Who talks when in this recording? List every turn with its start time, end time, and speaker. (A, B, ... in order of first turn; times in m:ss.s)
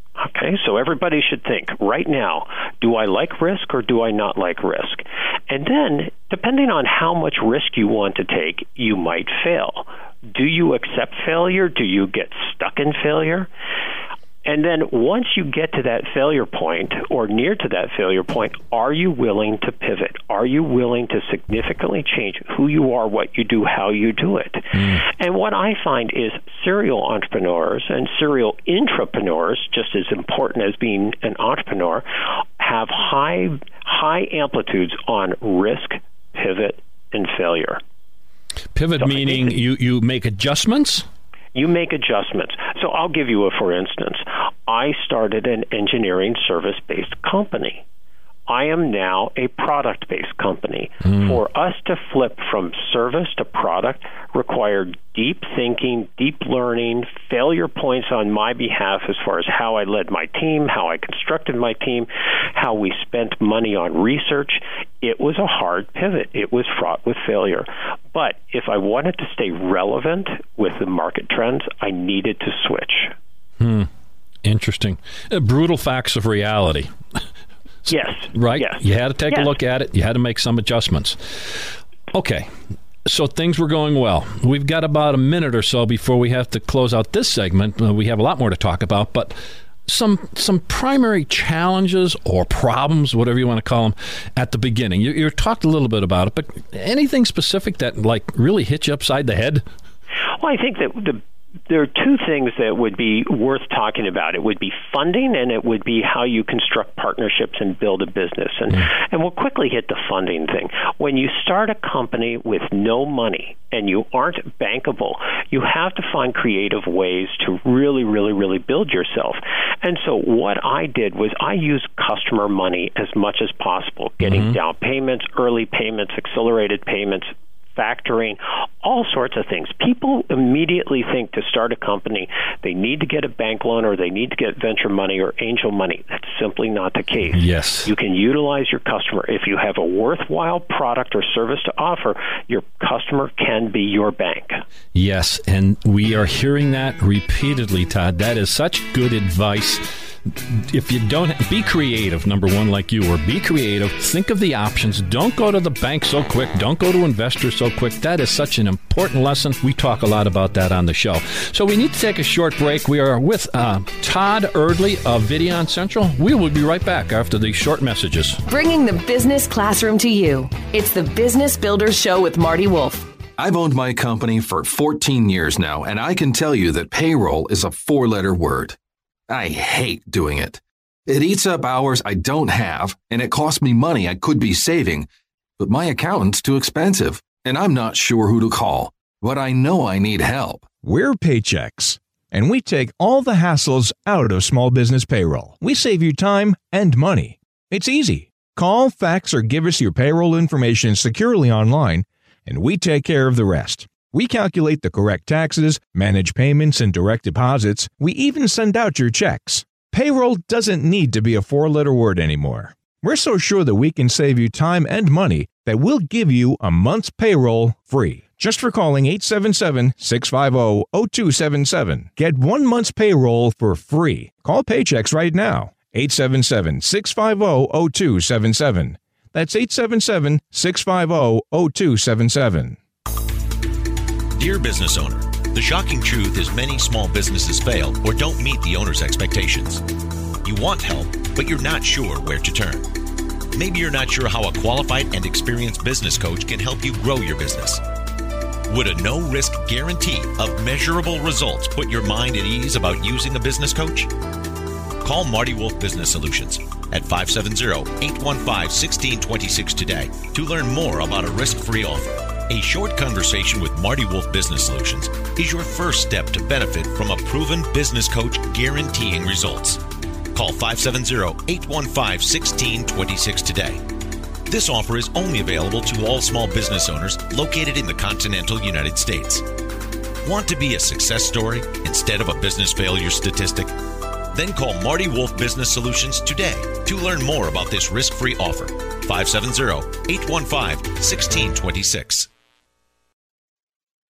0:00.2-0:13.5 A
0:14.4-0:32.1 A
0:24.7-0:25.0 B
0:32.6-0:37.8 A
0:38.7-0:41.0 B
0:39.0-0:39.6 A
0:41.6-0:47.8 A
0:48.5-1:13.2 A
0:51.0-0:51.4 B
1:13.6-1:13.9 B
1:14.4-1:17.2 B
1:17.9-1:22.5 B
1:17.9-1:19.6 A
1:23.0-1:39.6 B
1:40.4-2:24.6 A
2:04.2-2:04.6 B
2:17.3-2:17.9 B
2:24.9-2:48.4 B
2:48.5-2:53.1 C
2:53.4-2:58.8 D
2:59.3-3:05.1 D
3:05.6-3:10.7 D
3:10.8-3:52.8 E
3:54.3-3:59.8 F
4:00.4-4:02.9 F
4:03.5-4:07.8 F
4:08.7-4:14.1 F
4:15.0-4:29.8 F
4:30.3-4:33.8 F
4:34.5-4:39.4 F
4:40.2-4:43.7 F
4:44.3-4:52.3 F